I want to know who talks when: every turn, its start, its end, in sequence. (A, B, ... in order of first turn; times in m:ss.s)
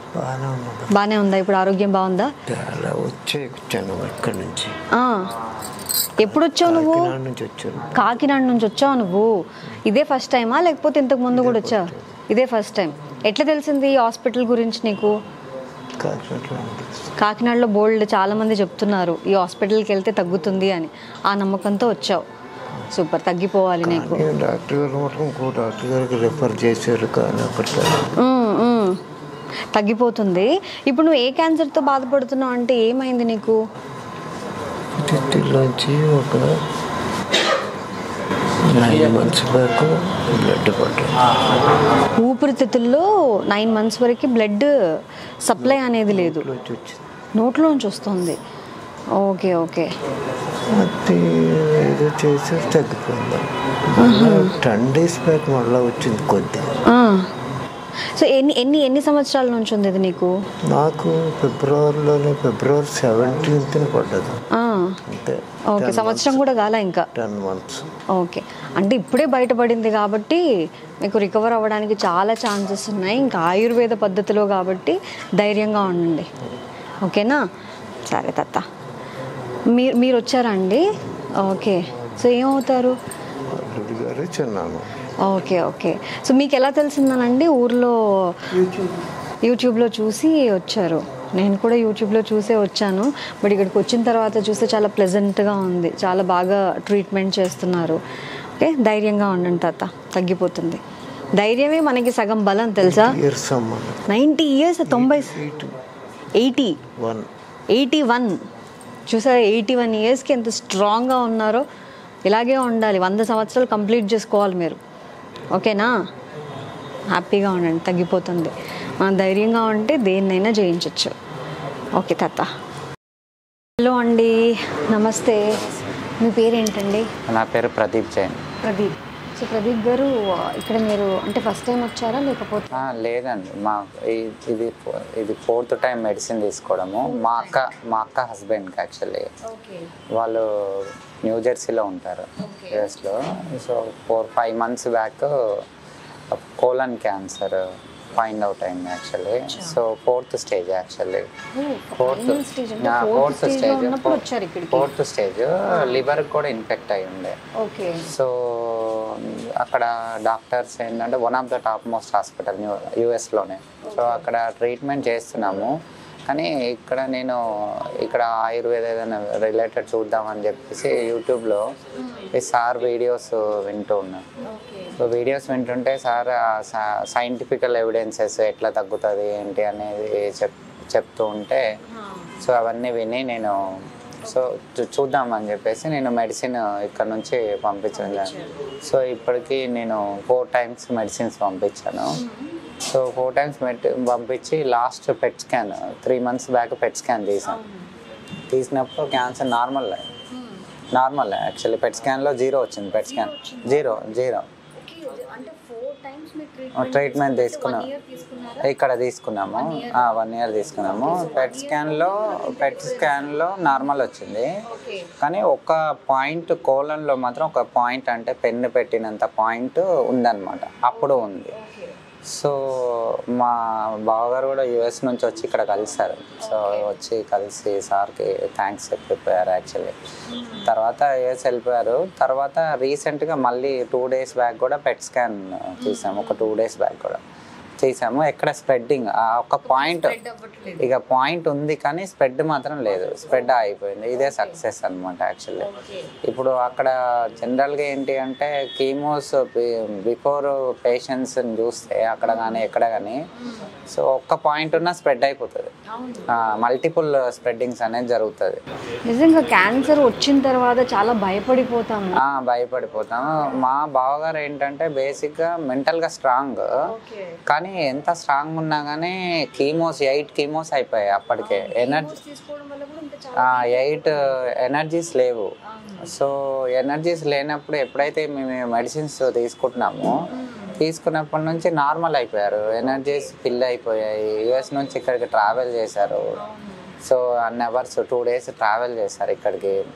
0:00.1-0:00.9 A
0:00.9-0:02.3 B
0:02.5-0:04.7 A
0:04.9-0:05.3 B
0:06.2-0:07.1 B
0:06.2-0:08.0 A
0:07.9-0:09.3 B
0:09.8-0:15.1 B
0:11.3-0:12.2 A
0:16.0-0:17.1 A
0:17.2-0:22.2 B
0:22.9-0:24.3 B
0:23.8-0:28.1 A
0:28.2-0:29.0 B
0:29.7-0:33.6 B
0:35.0-0:36.5 A
0:38.6-0:41.1 A
0:42.2-0:44.7 B
0:45.4-0:46.5 B
0:45.6-0:47.0 A
0:47.4-0:48.4 B
0:49.2-0:49.9 B
0:50.7-0:56.8 A
0:54.0-0:54.5 B
0:56.9-0:57.3 B
0:58.1-1:00.3 B
1:00.7-1:04.4 A
1:04.5-1:05.0 B
1:05.0-1:06.4 A
1:05.7-1:07.1 B
1:07.1-1:07.8 A
1:08.1-1:10.4 B
1:11.0-1:16.3 B
1:17.0-1:17.4 B
1:18.0-1:18.6 B
1:19.7-1:20.8 B
1:21.4-1:22.9 B
1:23.5-1:24.9 A
1:25.2-1:28.5 B
1:29.4-1:38.0 B
1:38.6-1:40.8 B
1:41.4-1:43.2 B
1:42.8-1:44.1 A
1:44.1-1:45.4 B
1:44.9-1:45.8 A
1:46.4-1:46.8 B
1:47.0-1:47.3 A
1:47.7-1:48.4 B
1:49.1-1:51.6 B
1:52.3-1:54.8 B
1:55.5-1:55.9 B
1:57.1-2:01.1 B
2:02.0-2:02.5 B
2:03.8-2:05.5 B
2:06.2-2:07.1 B
2:07.3-2:08.4 C
2:08.6-2:12.8 B
2:12.8-2:19.3 C
2:17.0-2:17.6 B
2:19.5-2:19.8 B
2:20.2-2:20.4 C
2:21.2-2:25.3 C
2:22.4-2:22.9 B
2:26.4-2:27.6 C
2:28.2-2:31.2 C
2:29.5-2:29.8 B
2:31.5-2:34.9 B
2:32.0-2:34.2 C
2:34.7-2:37.4 C
2:35.7-2:36.0 B
2:37.6-2:38.0 B
2:38.0-2:45.7 C
2:43.8-2:44.2 B
2:46.3-2:47.4 C
2:48.0-2:51.6 C
2:52.0-2:52.3 B
2:52.3-2:54.2 C
2:54.4-2:55.0 B
2:55.0-3:01.6 C
3:01.9-3:02.4 B
3:02.4-3:03.5 C
3:04.3-3:12.2 C
3:07.9-3:08.6 B
3:12.2-3:12.6 B
3:12.9-3:17.6 C
3:17.4-3:17.9 B
3:18.5-3:20.0 C
3:20.3-3:20.6 B
3:20.9-3:24.4 C
3:23.0-3:24.1 B
3:24.8-3:28.7 B
3:26.8-3:27.9 C
3:28.6-3:34.5 C
3:29.5-3:30.2 B
3:30.8-3:33.6 B
3:34.7-3:35.1 B
3:35.2-3:41.5 C
3:41.0-3:41.9 B
3:42.3-3:43.6 C
3:44.1-3:49.9 C
3:46.4-3:46.9 B
3:50.3-3:50.7 B
3:50.6-3:57.2 C
3:55.8-3:56.5 B
3:57.8-4:00.1 C
3:59.6-4:00.9 B
4:00.8-4:05.7 C
4:04.2-4:04.6 B
4:05.6-4:06.1 B
4:06.3-4:13.2 C
4:12.2-4:12.6 B
4:13.9-4:15.7 C
4:15.9-4:16.3 B
4:16.4-4:18.6 C
4:19.0-4:22.2 B
4:22.2-4:26.6 C
4:26.9-4:27.4 B
4:27.5-4:32.2 C
4:31.4-4:34.1 B
4:33.4-4:35.5 C
4:35.7-4:36.1 B
4:36.1-4:40.1 C
4:40.3-4:40.8 B
4:40.8-4:46.2 C
4:46.4-4:46.9 B
4:47.0-4:49.8 C